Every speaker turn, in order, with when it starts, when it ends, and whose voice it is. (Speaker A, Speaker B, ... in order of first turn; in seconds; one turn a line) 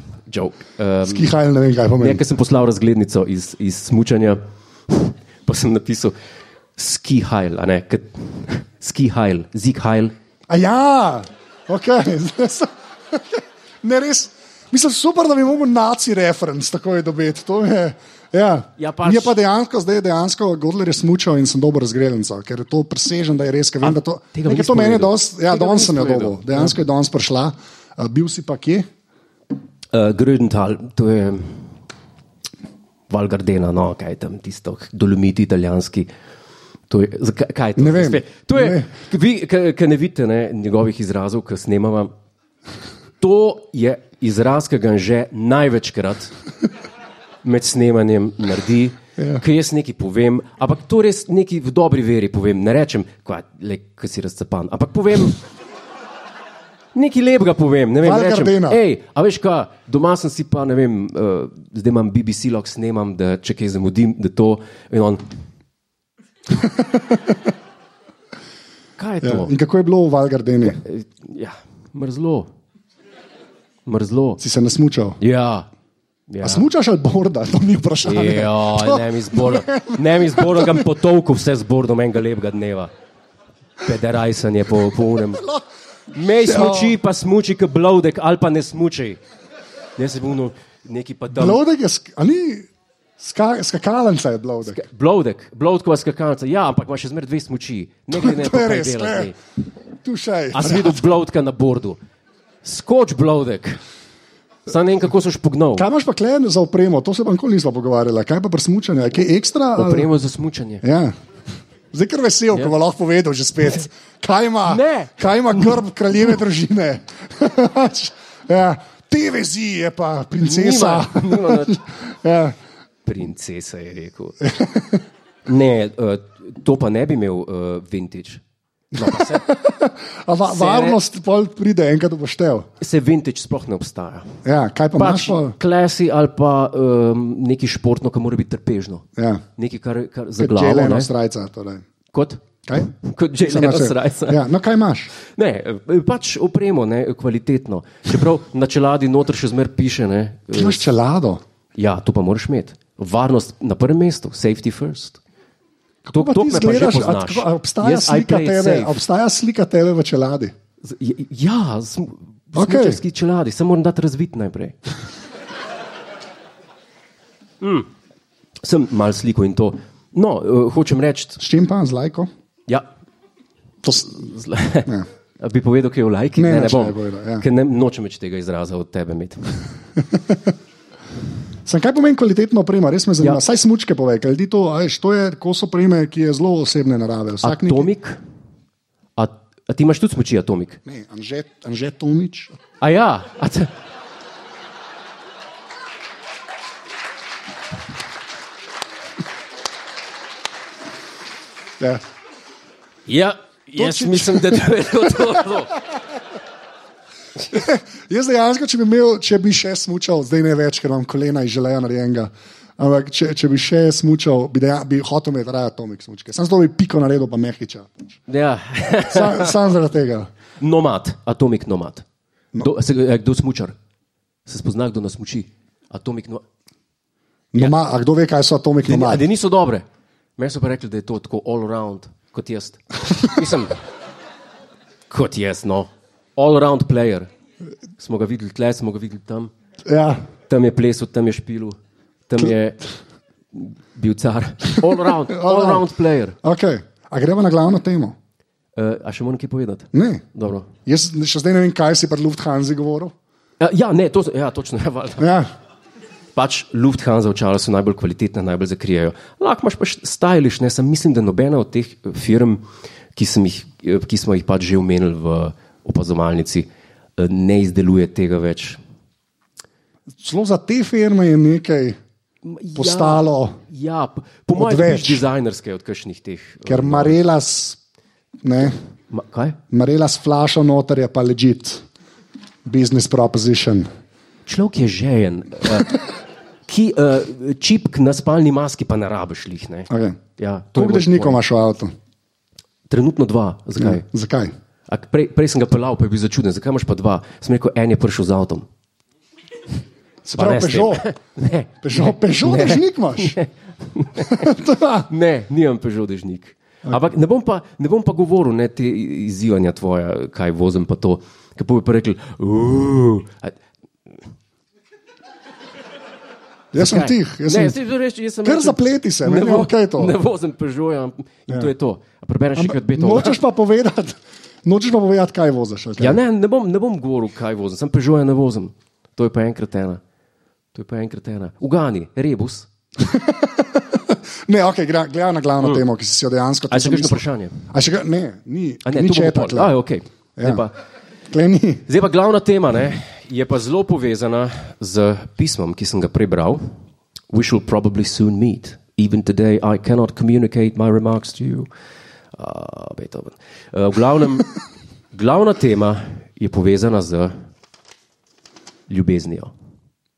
Speaker A: 0.3-1.3
Speaker B: 1.0-2.2
Speaker A: 2.0-6.1
Speaker A: 6.8-10.1
Speaker B: 10.5-28.9
Speaker A: 18.8-19.4
Speaker A: 23.8-26.8
Speaker A: 29.9-31.7
Speaker A: 33.1-36.1
Speaker A: 36.9-42.1
Speaker B: 37.8-38.9
Speaker A: 43.2-46.3
Speaker A: 47.4-55.4
Speaker B: 49.2-49.4
Speaker A: 56.9-65.2
Speaker B: 58.0-58.8
Speaker B: 66.5-67.4
Speaker A: 69.0-69.5
Speaker B: 69.2-70.8
Speaker A: 70.7-72.5
Speaker A: 73.8-74.4
Speaker B: 74.4-75.2
Speaker A: 75.2-75.7
Speaker A: 76.3-76.7
Speaker B: 76.4-80.9
Speaker A: 78.0-82.9
Speaker A: 83.8-85.5
Speaker B: 85.4-85.6
Speaker A: 86.1-89.2
Speaker B: 86.4-87.0
Speaker A: 90.0-91.6
Speaker B: 91.3-92.7
Speaker B: 93.2-94.8
Speaker A: 94.6-99.3
Speaker B: 98.1-99.3
Speaker B: 100.0-101.0
Speaker A: 100.5-102.0
Speaker A: 102.6-103.8
Speaker A: 104.7-105.8
Speaker B: 105.8-110.1
Speaker A: 109.8-110.8
Speaker B: 110.8-111.1
Speaker B: 111.9-122.6
Speaker A: 114.7-115.7
Speaker A: 120.4-121.8
Speaker A: 123.0-124.4
Speaker B: 124.4-125.0
Speaker A: 125.5-128.4
Speaker A: 128.9-129.4
Speaker B: 128.9-132.7
Speaker A: 130.4-131.0
Speaker A: 132.8-134.4
Speaker B: 134.4-135.6
Speaker A: 134.9-141.1
Speaker B: 139.2-139.4
Speaker B: 140.4-141.8
Speaker A: 142.1-144.4
Speaker B: 142.7-145.1
Speaker A: 145.2-150.9
Speaker B: 150.5-151.4
Speaker A: 151.8-155.2
Speaker B: 156.1-160.5
Speaker A: 156.1-159.0
Speaker A: 160.8-164.8
Speaker B: 162.5-163.0
Speaker A: 167.6-167.9
Speaker A: 168.6-171.4
Speaker B: 171.4-172.3
Speaker B: 173.8-174.2
Speaker A: 174.1-179.6
Speaker B: 176.4-177.4
Speaker B: 181.7-187.9
Speaker A: 187.4-188.2
Speaker A: 189.2-190.8
Speaker B: 190.8-192.6
Speaker A: 192.8-193.7
Speaker A: 203.1-205.8
Speaker B: 203.8-205.4
Speaker B: 207.5-218.2
Speaker A: 218.3-219.6
Speaker B: 219.1-220.3
Speaker A: 220.6-222.0
Speaker A: 222.6-223.7
Speaker A: 224.4-226.4
Speaker B: 227.5-229.2
Speaker A: 228.8-229.8
Speaker A: 230.4-233.8
Speaker A: 235.1-237.3
Speaker A: 238.0-239.5
Speaker B: 239.9-240.2
Speaker A: 240.5-241.8
Speaker A: 242.3-242.8
Speaker A: 243.5-246.3
Speaker B: 245.3-245.8
Speaker B: 246.4-248.1
Speaker A: 248.8-250.7
Speaker B: 249.9-250.2
Speaker B: 250.8-253.1
Speaker A: 253.6-255.3
Speaker B: 255.2-255.5
Speaker A: 256.3-262.6
Speaker A: 263.1-268.8
Speaker B: 270.2-272.0
Speaker A: 272.4-277.2
Speaker B: 272.7-273.6
Speaker B: 274.5-275.2
Speaker B: 276.6-277.8
Speaker B: 278.4-278.8
Speaker A: 279.1-279.6
Speaker B: 279.7-281.8
Speaker B: 282.6-283.9
Speaker A: 284.5-286.0
Speaker A: 286.7-291.4
Speaker B: 289.9-290.2
Speaker B: 290.7-291.9
Speaker A: 292.9-294.0
Speaker B: 293.8-294.5
Speaker A: 294.9-298.7
Speaker B: 300.2-301.0
Speaker A: 300.4-304.5
Speaker B: 301.8-303.4
Speaker B: 304.2-305.1
Speaker A: 305.1-313.5
Speaker B: 316.7-317.8
Speaker A: 316.7-323.4
Speaker B: 318.4-320.2
Speaker B: 322.5-326.2
Speaker A: 326.0-330.0
Speaker A: 330.7-332.7
Speaker B: 333.0-339.7
Speaker A: 336.7-337.6
Speaker A: 338.8-340.7
Speaker B: 340.4-340.6
Speaker B: 341.3-341.8
Speaker A: 341.9-346.6
Speaker A: 347.3-351.7
Speaker A: 352.3-354.5
Speaker A: 355.1-357.3
Speaker A: 358.9-359.5